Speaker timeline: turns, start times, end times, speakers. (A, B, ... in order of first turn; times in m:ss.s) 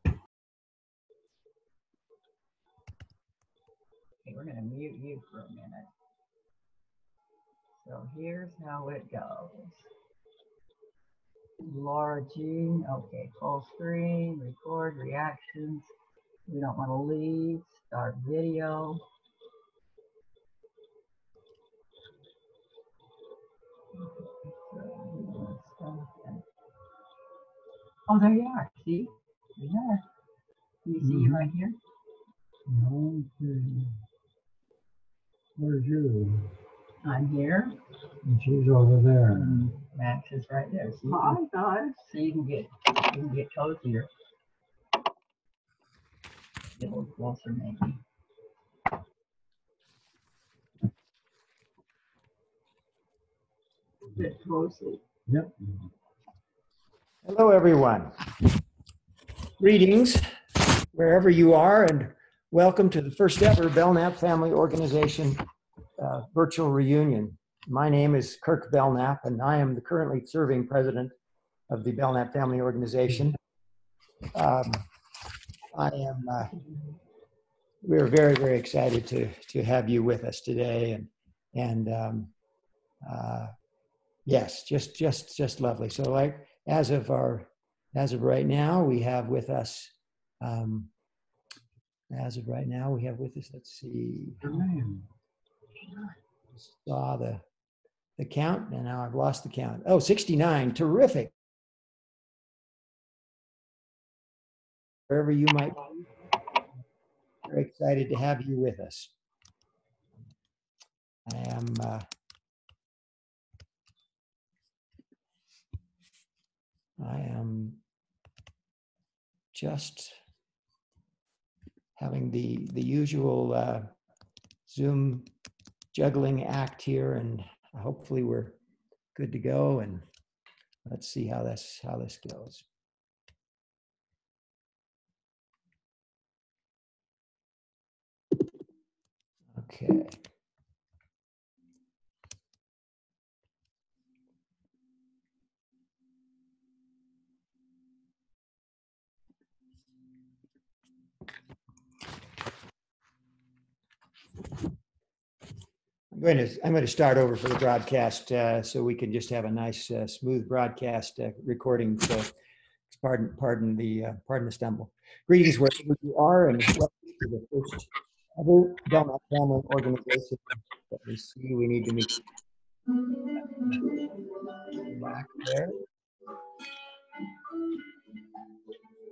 0:04.2-0:05.9 A
0:07.8-0:09.9 A
0:11.6-0:15.9 A
0:16.5-0:19.0 A
0:24.0-0:26.4 A
0:28.1-0:30.0 A
0:30.8-0:31.8 A
0:31.0-0:31.4 B
0:32.7-0:33.8 B
0:35.6-0:36.4 B
0:37.0-0:37.8 A
0:38.3-0:39.7 B
0:39.3-0:44.1 A
0:46.8-0:48.0 A
0:54.1-0:55.0 A
0:57.2-0:58.2 C
0:59.6-1:00.3 C
1:00.9-1:05.4 C
1:06.0-1:11.1 C
1:11.7-1:13.4 C
1:14.3-1:14.8 C
1:15.7-1:16.6 C
1:17.8-1:22.3 C
1:23.0-1:23.5 C
1:24.3-1:30.9 C
1:32.1-1:34.5 C
1:34.4-1:35.0 B
1:36.6-1:37.4 C
1:38.2-1:41.3 C
1:45.1-1:45.9 C
1:47.4-1:49.1 C
1:51.3-1:52.1 C
1:57.0-1:57.8 C
1:59.5-2:00.2 C
2:02.0-2:03.9 C
2:04.7-2:05.3 C
2:05.9-2:08.6 C
2:09.2-2:10.0 C
2:10.9-2:12.6 C
2:19.5-2:20.2 C
2:36.1-2:42.3 C
2:42.9-2:52.2 C
2:54.8-2:55.8 C